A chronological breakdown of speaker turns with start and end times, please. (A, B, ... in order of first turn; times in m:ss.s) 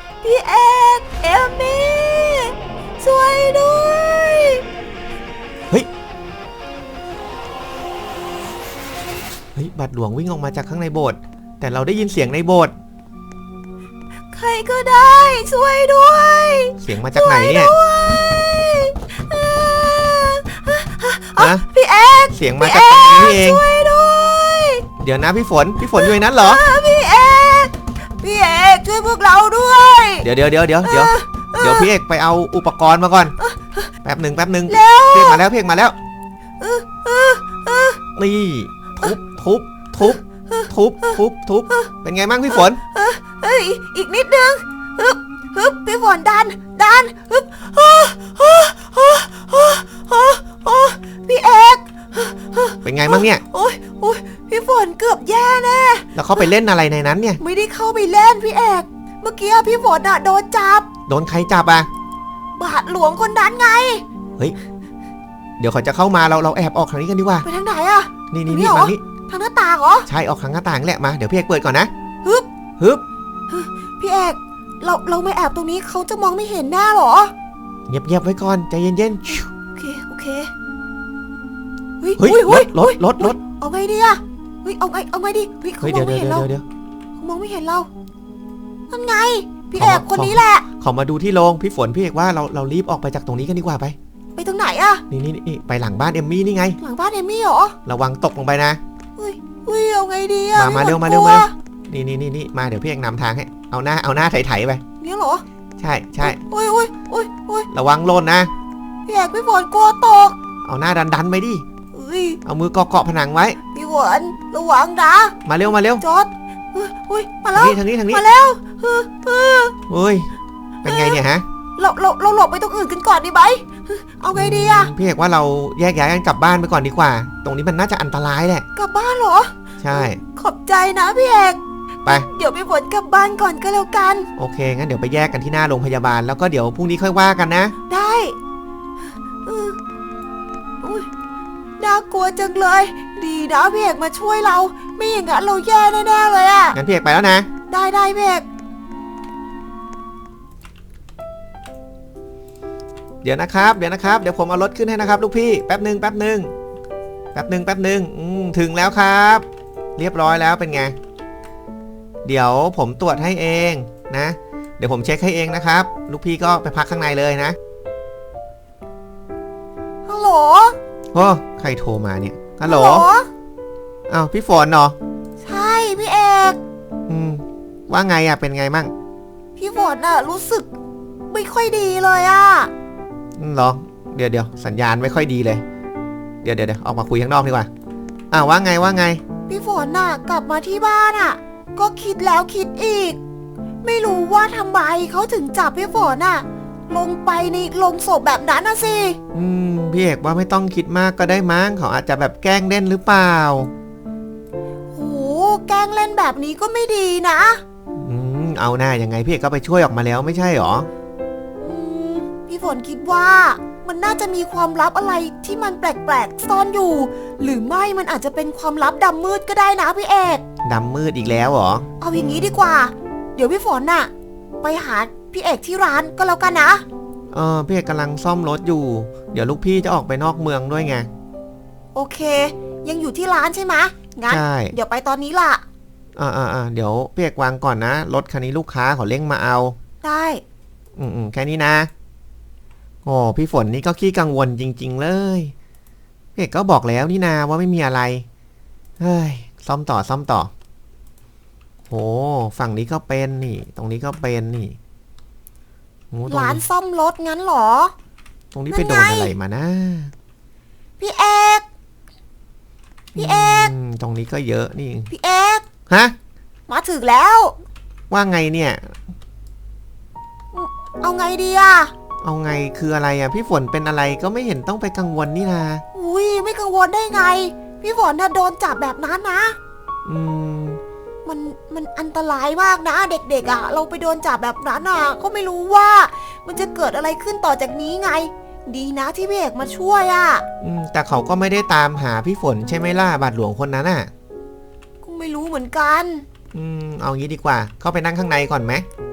0:00.2-0:04.6 A
0:09.6-0:12.7 B
0:14.3-0:24.8 A
0:16.8-0:17.8 B
0:21.4-0:21.7 B
0:22.3-0:23.6 B
0:25.0-0:26.6 B
0:26.0-0:30.3 A
0:30.2-0:33.4 B
0:30.8-0:31.9 A
0:33.4-0:33.9 A
0:34.0-0:36.0 B
0:34.7-0:35.4 A
0:36.6-0:38.0 A
0:38.2-0:42.8 B
0:40.0-0:41.2 A
0:42.5-0:56.5 A
0:52.8-0:53.4 B
0:56.2-0:57.4 B
0:57.4-1:00.9 A
1:01.1-1:01.9 B
1:02.6-1:04.0 A
1:05.6-1:07.5 B
1:07.4-1:10.1 A
1:08.3-1:09.0 B
1:10.1-1:11.9 B
1:13.5-1:17.3 A
1:17.9-1:19.5 B
1:19.8-1:20.5 A
1:22.0-1:26.5 A
1:22.2-1:23.4 B
1:25.8-1:26.6 B
1:27.2-1:27.9 A
1:28.9-1:30.7 A
1:29.8-1:34.0 B
1:34.4-1:35.0 A
1:35.1-1:36.8 B
1:36.8-1:37.8 A
1:37.9-1:38.8 B
1:39.2-1:41.5 A
1:40.6-1:44.8 B
1:45.0-1:45.4 A
1:45.8-1:46.4 B
1:46.2-1:47.7 A
1:47.7-1:48.5 B
1:49.1-1:50.4 A
1:50.6-1:51.6 B
1:51.9-1:52.4 A
1:52.4-1:53.6 B
1:53.7-1:55.4 A
1:55.5-1:56.0 B
1:56.0-1:59.7 A
1:57.6-1:58.2 B
1:59.9-2:00.3 B
2:00.8-2:01.4 B
2:00.9-2:01.2 A
2:01.8-2:04.9 A
2:04.3-2:08.6 B
2:08.8-2:14.3 A
2:09.8-2:10.2 B
2:14.4-2:17.8 B
2:17.9-2:18.4 A
2:19.4-2:19.8 A
2:20.8-2:21.1 A
2:21.8-2:26.8 A
2:26.7-2:27.5 B
2:27.7-2:28.5 A
2:33.2-2:36.5 B
2:37.3-2:39.4 B
2:40.0-2:41.0 B
2:42.2-2:47.6 B
2:50.1-2:50.8 A
2:51.1-2:53.1 B
2:52.6-2:53.3 A
2:54.1-2:55.0 B
2:55.4-2:56.6 A
2:57.1-2:58.9 B
2:59.6-3:00.7 A
3:01.3-3:02.7 A
3:03.4-3:05.6 B
3:06.4-3:07.7 B
3:08.3-3:09.2 B
3:09.5-3:13.2 A
3:13.8-3:19.2 A
3:19.3-3:23.7 B
3:24.9-3:27.6 A
3:28.0-3:30.9 B
3:31.6-3:40.4 A
3:40.6-3:41.9 B
3:42.0-3:44.1 A
3:44.6-3:46.8 A
3:47.3-3:51.1 B
3:52.0-3:55.6 A
3:54.3-3:54.8 B
3:56.2-3:59.8 B
4:00.0-4:00.4 A
4:01.0-4:01.9 B
4:03.0-4:05.5 B
4:06.4-4:08.2 B
4:09.0-4:10.5 B
4:11.9-4:14.8 B
4:16.1-4:16.6 B
4:16.3-4:17.9 A
4:18.5-4:20.1 B
4:18.7-4:19.4 A
4:21.0-4:21.6 A
4:23.2-4:25.1 B
4:23.2-4:23.7 A
4:25.1-4:25.6 A
4:25.9-4:26.2 B
4:26.7-4:27.6 A
4:28.1-4:29.0 B
4:30.5-4:31.9 A
4:32.2-4:35.8 B
4:35.9-4:39.6 A
4:40.0-4:40.8 B
4:41.2-4:50.4 A
4:50.6-4:54.1 B
4:55.0-4:56.2 A
4:56.5-4:58.9 B